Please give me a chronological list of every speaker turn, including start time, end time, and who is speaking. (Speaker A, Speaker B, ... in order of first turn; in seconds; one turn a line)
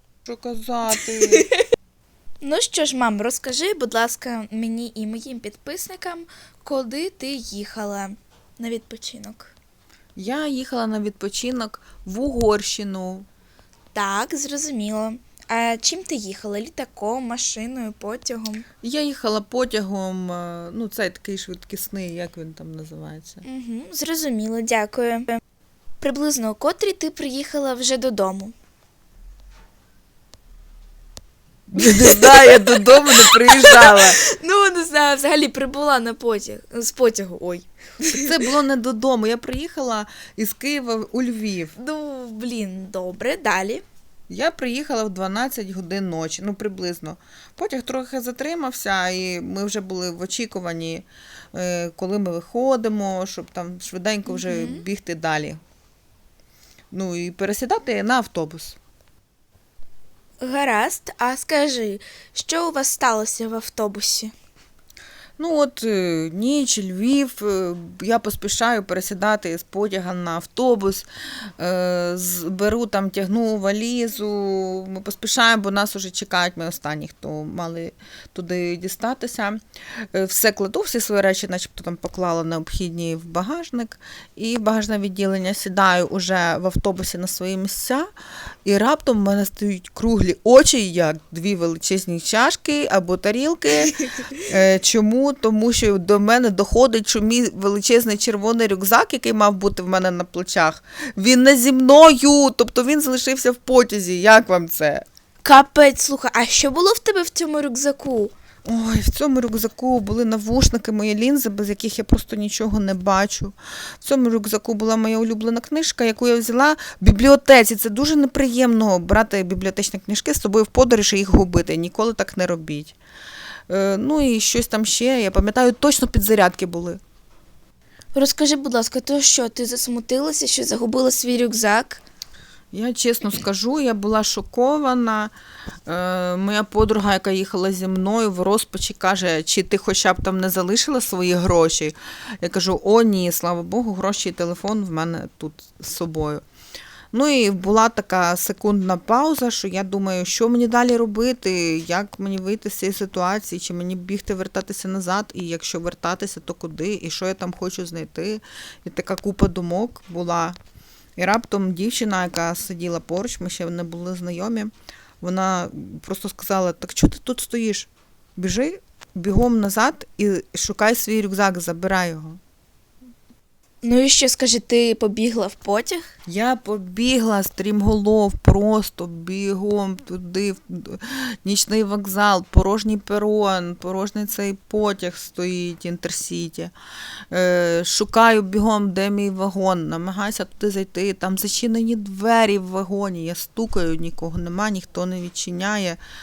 Speaker A: 0.3-1.4
Speaker B: 2.4-9.5
Speaker A: 10.2-13.2
Speaker B: 13.9-18.6
Speaker A: 18.8-23.4
Speaker B: 23.4-25.4
Speaker B: 26.0-28.5
Speaker A: 31.7-34.2
Speaker B: 31.8-38.3
Speaker A: 38.1-41.7
Speaker B: 41.8-43.8
Speaker A: 44.3-55.6
Speaker B: 54.3-54.8
Speaker A: 56.9-58.8
Speaker B: 60.4-64.3
Speaker A: 65.4-71.1
Speaker A: 71.6-88.1
Speaker A: 88.6-105.0
Speaker B: 105.4-108.3
Speaker A: 108.6-123.0
Speaker A: 123.7-127.0
Speaker B: 128.1-132.0
Speaker A: 132.7-135.3
Speaker A: 135.8-146.4
Speaker A: 147.1-160.6
Speaker A: 161.2-172.4
Speaker B: 173.8-176.0
Speaker A: 176.3-186.7
Speaker A: 187.3-196.0